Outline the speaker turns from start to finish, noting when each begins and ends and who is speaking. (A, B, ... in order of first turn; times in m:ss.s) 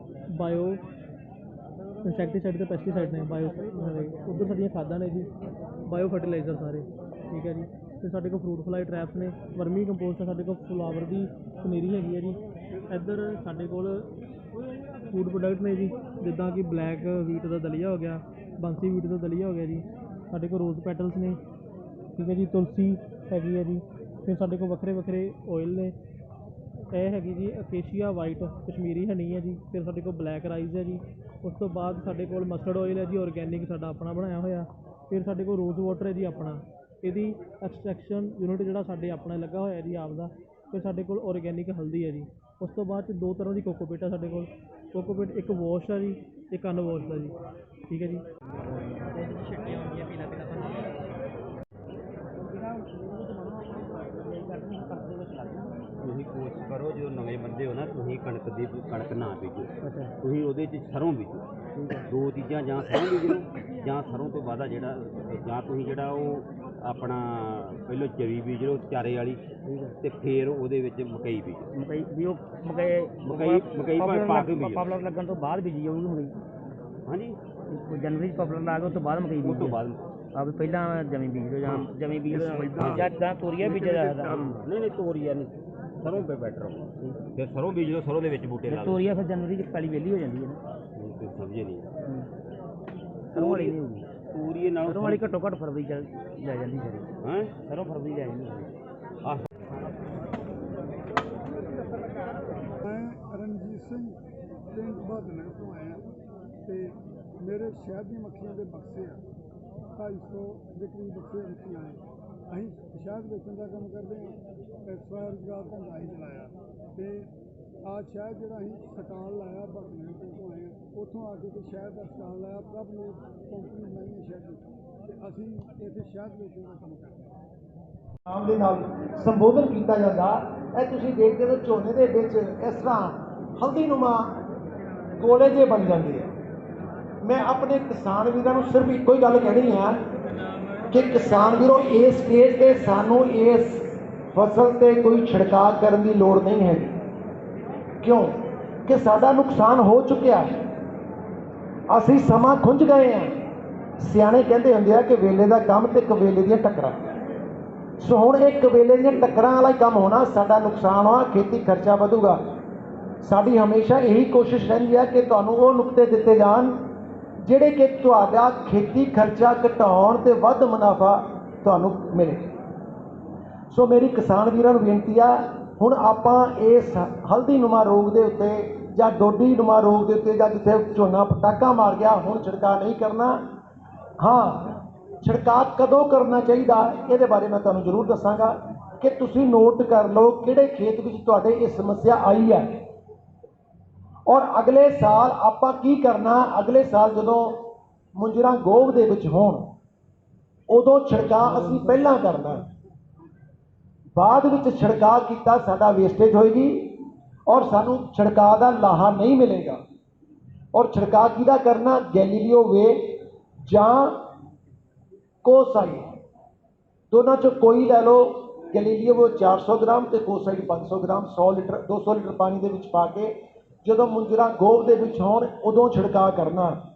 0:00.3-0:00.8 A
0:02.0-0:05.3 A
0:05.9-0:14.1 A
0:15.1-0:21.4 A
0:22.2-0:25.9 A
0:26.9-0:47.3 A
0:47.9-0:48.2 A
0:49.2-0:50.6 B
0:53.2-0:53.6 B
0:54.3-0:55.6 B
0:56.0-1:01.4 C
1:02.0-1:11.7 C
1:11.8-1:16.3 B
1:13.2-1:14.8 C
1:17.0-1:17.4 C
1:17.7-1:19.7 B
1:19.4-1:20.0 C
1:20.4-1:24.6 B
1:21.6-1:23.1 C
1:23.6-1:29.0 C
1:28.7-1:30.6 B
1:31.0-1:31.8 C
1:33.3-1:33.7 C
1:33.3-1:34.0 B
1:34.3-1:35.2 C
1:34.8-1:37.0 B
1:37.2-1:38.7 C
1:38.1-1:38.5 B
1:42.8-1:44.2 D
1:44.7-1:46.0 D
1:46.6-1:49.2 D
1:50.0-1:57.3 D
1:57.8-2:04.6 D
2:05.2-2:07.4 D
2:08.3-2:14.3 E
2:15.2-2:16.3 E
2:17.2-2:20.0 E
2:20.9-2:27.0 E
2:28.0-2:28.3 E
2:28.9-2:30.4 E
2:31.9-2:33.3 E
2:34.0-2:37.0 E
2:38.0-2:42.4 E
2:43.2-2:46.7 E
2:47.4-2:52.4 E
2:53.7-3:03.4 E
3:04.2-3:12.8 E
3:14.3-3:17.6 E
3:18.2-3:19.7 E
3:20.7-3:22.6 E
3:24.1-3:27.0 E
3:27.5-3:29.8 E
3:30.7-3:34.1 E
3:35.4-3:36.0 E
3:37.1-3:46.7 E